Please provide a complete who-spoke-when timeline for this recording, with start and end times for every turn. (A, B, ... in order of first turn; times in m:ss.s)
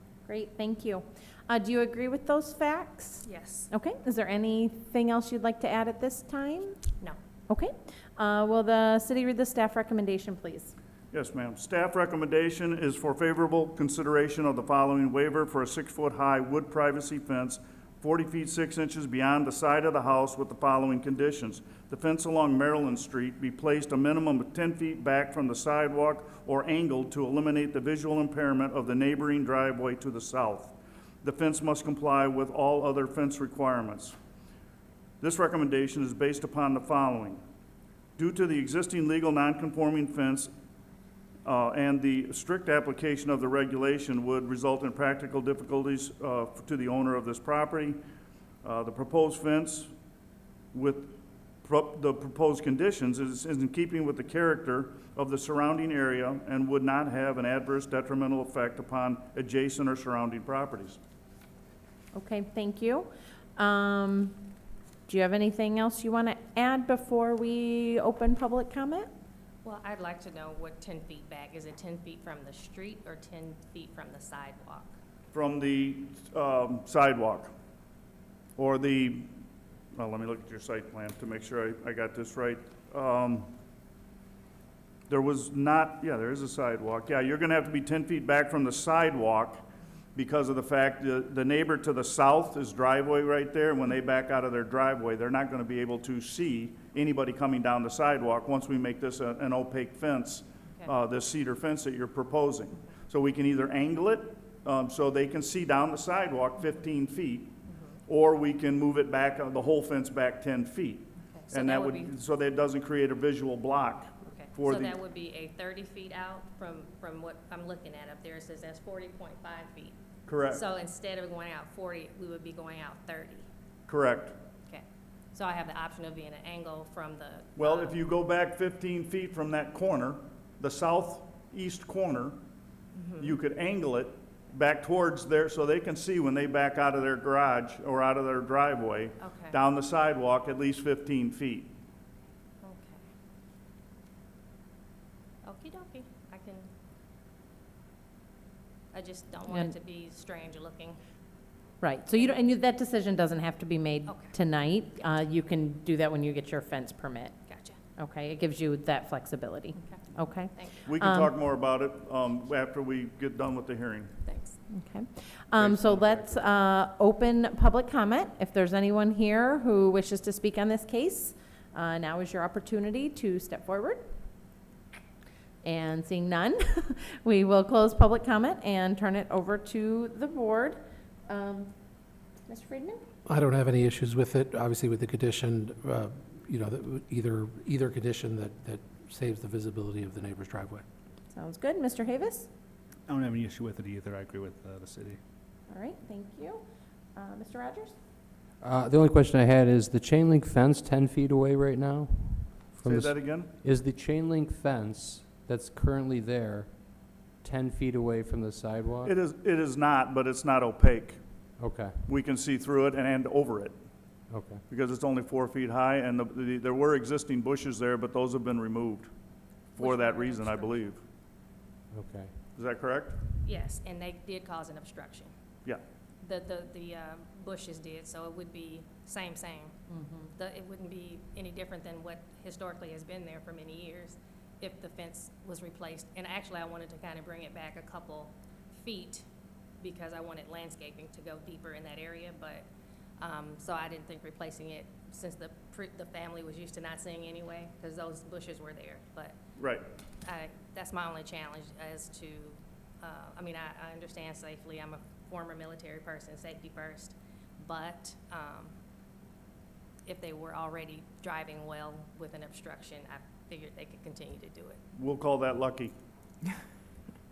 0:00.3-0:06.8 A
0:03.2-0:03.7 B
0:07.5-0:10.7 A
0:11.1-0:34.2 C
0:35.2-0:37.4 C
0:38.2-0:40.5 C
0:41.4-0:48.0 C
0:48.6-0:49.9 C
0:50.7-1:01.0 C
1:02.2-1:04.4 A
1:05.1-1:09.1 A
1:09.6-1:14.9 B
1:15.3-1:17.5 C
1:18.6-1:19.4 C
1:20.0-1:23.5 C
1:25.1-1:29.6 C
1:30.2-1:47.6 C
1:47.7-1:47.9 B
1:48.1-1:54.9 C
1:51.3-1:52.1 B
1:54.3-2:00.0 B
2:00.3-2:00.6 C
2:00.5-2:03.5 B
2:03.9-2:04.4 C
2:04.7-2:08.0 B
2:07.6-2:12.4 C
2:13.0-2:13.4 B
2:13.2-2:21.7 C
2:19.2-2:19.6 B
2:22.6-2:23.0 B
2:25.4-2:26.7 B
2:28.9-2:31.0 B
2:29.5-2:29.7 A
2:31.8-2:37.4 A
2:34.1-2:34.3 B
2:37.5-2:37.8 B
2:38.0-2:41.3 A
2:39.8-2:40.7 B
2:40.8-2:44.1 C
2:44.3-2:44.6 B
2:44.7-2:54.0 A
2:45.6-2:46.4 C
2:55.6-3:00.8 A
3:01.3-3:01.7 A
3:02.5-3:03.0 A
3:03.3-3:10.8 D
3:11.3-3:12.5 A
3:13.1-3:15.2 E
3:15.7-3:16.6 A
3:17.2-3:17.9 A
3:18.6-3:29.1 F
3:22.8-3:23.5 C
3:29.0-3:31.2 C
3:31.6-3:32.0 F
3:32.1-3:33.7 C
3:34.3-3:34.6 F
3:34.7-3:39.1 C
3:39.8-3:41.0 C
3:39.8-3:40.9 B
3:41.9-3:42.4 F
3:42.6-3:43.2 C
3:43.4-3:45.3 B
3:46.2-3:49.7 B
3:49.9-3:50.3 A
3:50.4-3:59.2 B
3:59.8-4:02.7 B
4:03.2-4:09.4 B
4:09.6-4:09.8 C
4:10.2-4:18.7 B
4:20.1-4:24.8 B
4:25.0-4:25.9 C